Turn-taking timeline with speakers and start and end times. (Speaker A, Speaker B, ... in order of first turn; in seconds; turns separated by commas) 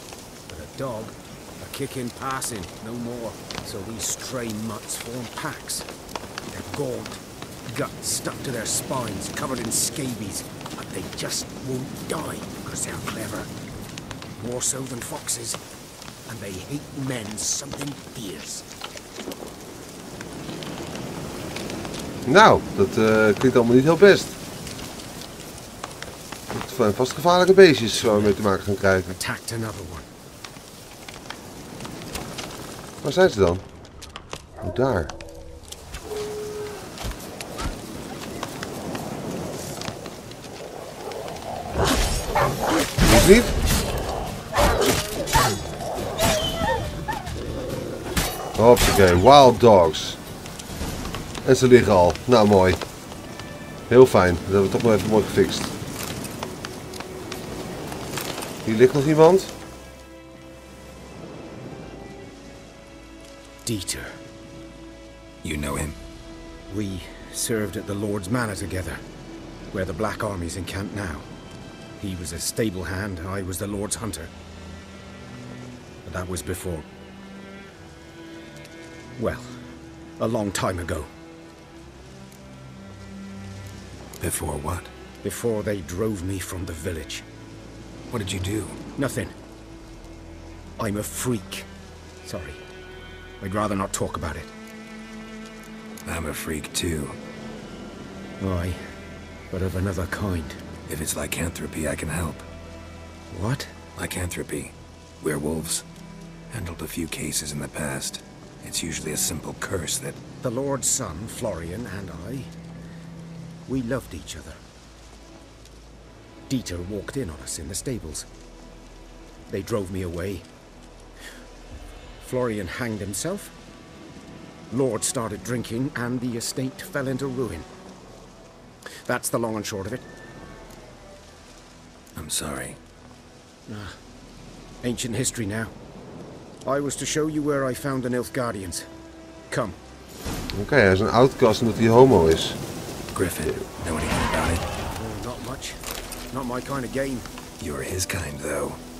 Speaker A: 0.5-5.9, Speaker A: 6.5-13.5, Speaker A: 14.4-15.6, Speaker A: 16.3-18.6, Speaker B: 22.2-24.4, Speaker B: 26.5-29.2, Speaker A: 28.0-28.4, Speaker A: 29.1-30.1, Speaker B: 33.0-33.6, Speaker B: 34.6-35.1, Speaker B: 43.0-43.5, Speaker B: 48.5-50.2, Speaker B: 51.4-52.8, Speaker B: 53.9-55.7, Speaker B: 58.6-59.5, Speaker A: 63.6-64.2, Speaker C: 65.4-66.0, Speaker A: 66.7-69.0, Speaker A: 69.7-71.3, Speaker A: 72.0-74.3, Speaker A: 76.0-76.8, Speaker A: 79.2-79.6, Speaker A: 80.2-81.1, Speaker C: 84.2-84.9, Speaker A: 85.2-87.2, Speaker C: 88.1-88.8, Speaker A: 89.0-89.3, Speaker A: 90.8-91.7, Speaker A: 92.2-92.6, Speaker A: 93.4-94.5, Speaker C: 96.0-97.2, Speaker A: 98.4-98.8, Speaker A: 99.5-100.6, Speaker C: 100.9-102.5, Speaker A: 103.3-103.8, Speaker C: 104.0-105.8, Speaker C: 106.5-110.2, Speaker A: 110.4-112.5, Speaker A: 113.7-114.6, Speaker A: 116.5-118.2, Speaker A: 119.5-120.5, Speaker A: 122.2-123.5, Speaker A: 124.7-127.7, Speaker A: 129.0-130.0, Speaker C: 132.1-132.8, Speaker A: 133.7-133.9, Speaker A: 134.8-135.7, Speaker A: 136.6-138.9, Speaker A: 139.5-139.8, Speaker B: 140.5-142.6, Speaker C: 143.1-144.7, Speaker A: 144.9-145.8, Speaker A: 146.3-147.3, Speaker C: 147.6-148.8